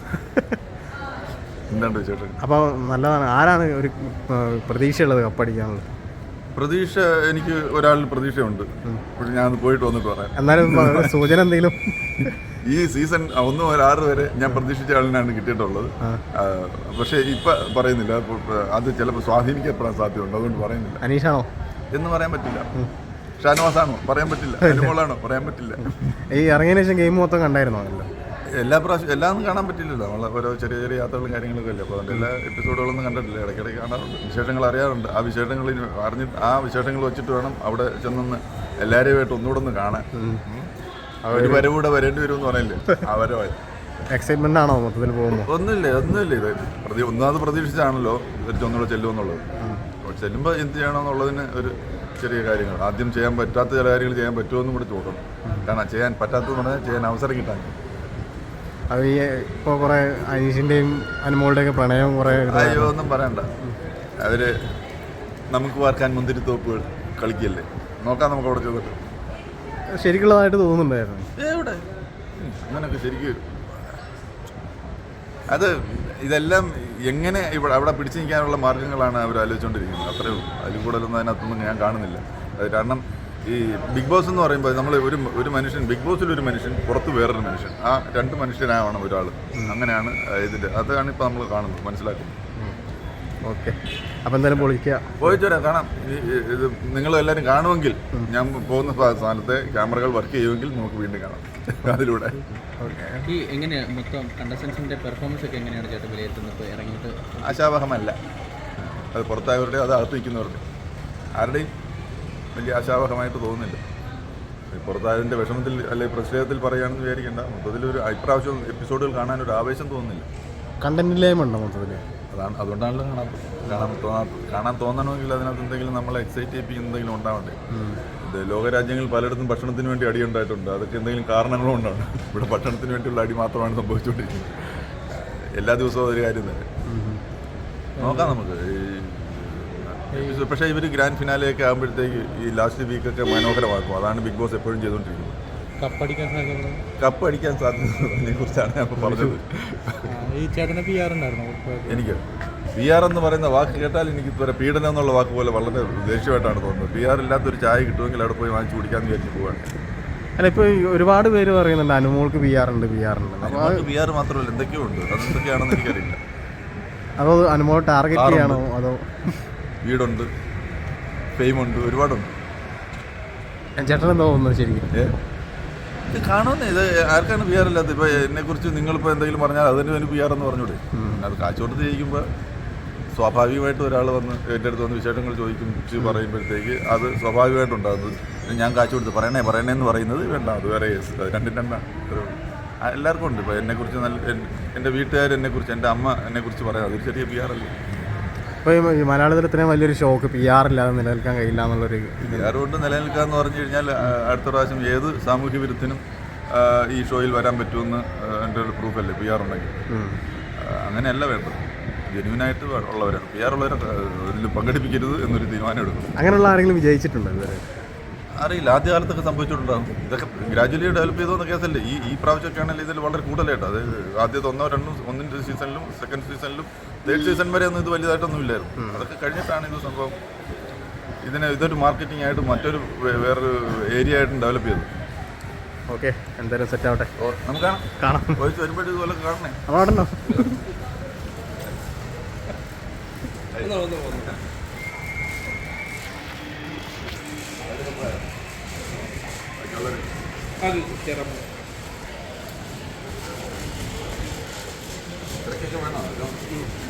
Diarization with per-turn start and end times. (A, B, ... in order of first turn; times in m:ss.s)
0:00.2-0:00.6 A
0:01.7-0:02.4 B
0:02.4-0:05.9 A
0:06.6-0:11.3 B
0:10.4-0:12.3 A
0:12.2-0:21.0 B
0:21.0-0:21.5 A
0:21.9-0:22.7 B
0:23.4-0:25.9 B
0:24.6-0:24.9 A
0:26.3-0:28.1 A
0:28.6-0:40.7 B
0:40.1-0:40.4 A
0:41.2-0:41.7 A
0:41.3-0:43.6 B
0:44.1-0:45.5 A
0:45.5-0:49.4 B
0:50.0-0:57.8 B
0:58.9-1:02.9 A
1:02.3-1:03.5 B
1:04.2-1:04.6 B
1:05.5-1:09.0 B
1:09.9-1:11.3 A
1:11.4-1:11.8 B
1:12.4-1:13.8 B
1:15.5-1:32.4 B
1:33.5-1:35.4 A
1:35.2-1:42.5 B
1:42.8-1:43.3 A
1:43.2-1:47.6 C
1:47.4-1:48.2 B
1:49.1-1:50.6 B
1:51.4-1:51.7 B
1:52.6-1:53.8 B
1:54.7-2:00.3 B
2:00.8-2:02.0 A
2:02.3-2:07.6 B
2:07.7-2:08.0 A
2:08.2-2:16.7 B
2:16.9-2:17.2 A
2:18.0-2:18.4 C
2:18.0-2:25.4 B
2:20.1-2:20.4 C
2:25.8-2:26.8 C
2:27.0-2:30.2 B
2:30.1-2:32.0 C
2:31.9-2:32.2 B
2:32.8-2:39.7 B
2:40.4-2:43.8 A
2:43.4-2:46.2 B
2:47.2-2:49.4 A
2:48.1-2:48.6 B
2:49.8-2:50.3 B
2:51.4-2:52.3 B
2:53.8-2:54.9 A
2:56.1-3:02.3 B
3:00.9-3:01.2 A
3:03.1-3:17.8 B
3:18.6-3:22.6 A
3:22.2-3:29.7 B
3:29.9-3:30.2 A
3:30.6-3:36.1 B
3:36.2-3:37.7 A
3:38.4-3:50.2 B
3:48.8-3:49.1 A
3:51.2-3:54.9 B
3:55.9-3:57.1 A
3:57.2-3:59.6 B
3:58.0-3:58.4 A
3:59.7-4:00.6 A
4:03.5-4:04.4 B
4:03.8-4:04.3 C
4:07.6-4:08.2 B
4:09.6-4:10.2 B
4:10.6-4:11.4 C
4:15.4-4:16.5 B